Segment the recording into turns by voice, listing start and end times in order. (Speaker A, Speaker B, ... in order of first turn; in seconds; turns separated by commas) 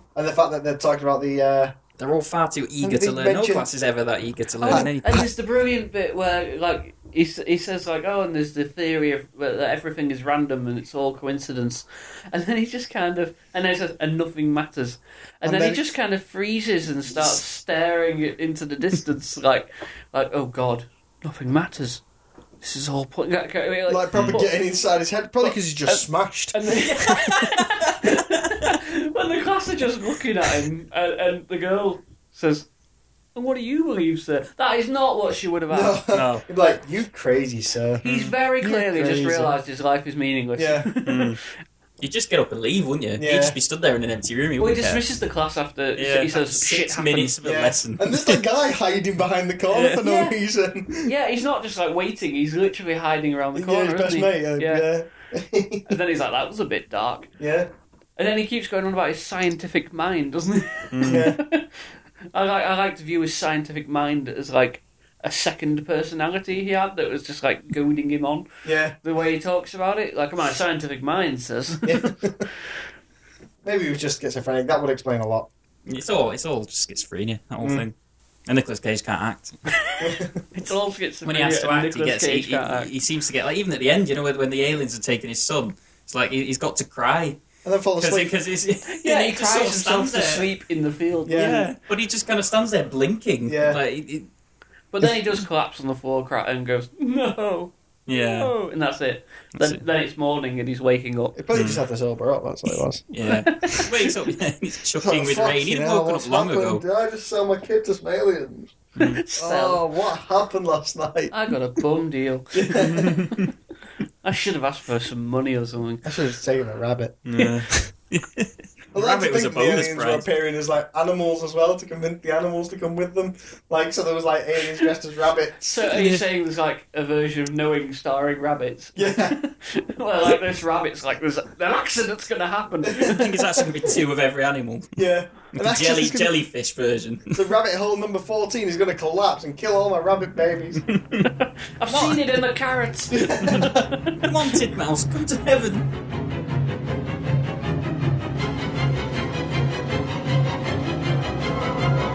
Speaker A: 0.1-1.7, Speaker B: 2.0-5.3, Speaker A: 2.8-3.7, Speaker C: 4.6-22.0, Speaker A: 15.4-15.9, Speaker A: 17.1-17.4, Speaker C: 22.6-24.6, Speaker A: 23.9-26.6, Speaker B: 24.1-24.4, Speaker C: 25.4-26.0, Speaker C: 26.5-32.7, Speaker B: 27.1-28.8, Speaker C: 33.3-36.0, Speaker A: 35.7-38.0, Speaker B: 36.1-36.4, Speaker C: 38.0-41.5, Speaker B: 38.0-38.3, Speaker A: 38.6-39.5, Speaker A: 40.5-40.9, Speaker B: 41.0-41.4, Speaker B: 42.0-45.0, Speaker A: 43.2-43.6, Speaker C: 44.6-47.4, Speaker B: 46.0-48.4, Speaker A: 47.4-51.1, Speaker B: 49.7-50.0, Speaker C: 50.0-50.4, Speaker C: 51.0-54.9, Speaker A: 53.5-56.0, Speaker C: 55.9-57.3, Speaker A: 57.4-57.7, Speaker C: 58.2-61.7, Speaker B: 60.9-61.3, Speaker A: 61.0-61.4, Speaker C: 62.3-68.5, Speaker A: 68.6-69.0, Speaker C: 69.0-72.2, Speaker A: 71.8-72.5, Speaker A: 73.6-75.5, Speaker B: 75.8-77.9, Speaker B: 78.5-79.6, Speaker C: 79.7-82.9, Speaker A: 80.0-80.7, Speaker B: 81.2-87.4, Speaker A: 87.6-88.3, Speaker B: 88.0-90.5, Speaker C: 88.9-91.6, Speaker A: 91.2-91.7, Speaker B: 91.3-94.3, Speaker A: 93.5-93.8, Speaker C: 94.9-101.4, Speaker A: 95.0-95.3, Speaker B: 98.1-98.5, Speaker A: 101.3-103.9, Speaker B: 101.5-101.8, Speaker B: 103.1-106.8, Speaker A: 105.0-108.8, Speaker C: 109.0-109.8, Speaker A: 109.3-111.3, Speaker C: 111.3-113.4, Speaker A: 112.5-113.1, Speaker B: 112.8-113.5, Speaker C: 114.2-116.0, Speaker A: 116.0-117.9, Speaker B: 117.2-120.2, Speaker A: 118.9-125.9, Speaker C: 125.6-133.4, Speaker B: 125.9-126.2, Speaker A: 128.9-129.3, Speaker B: 133.1-135.0, Speaker A: 134.9-136.3, Speaker B: 135.5-137.4, Speaker A: 137.3-140.8, Speaker B: 140.9-141.3, Speaker C: 141.2-144.4, Speaker B: 141.9-142.4, Speaker A: 143.1-143.8, Speaker B: 143.5-145.9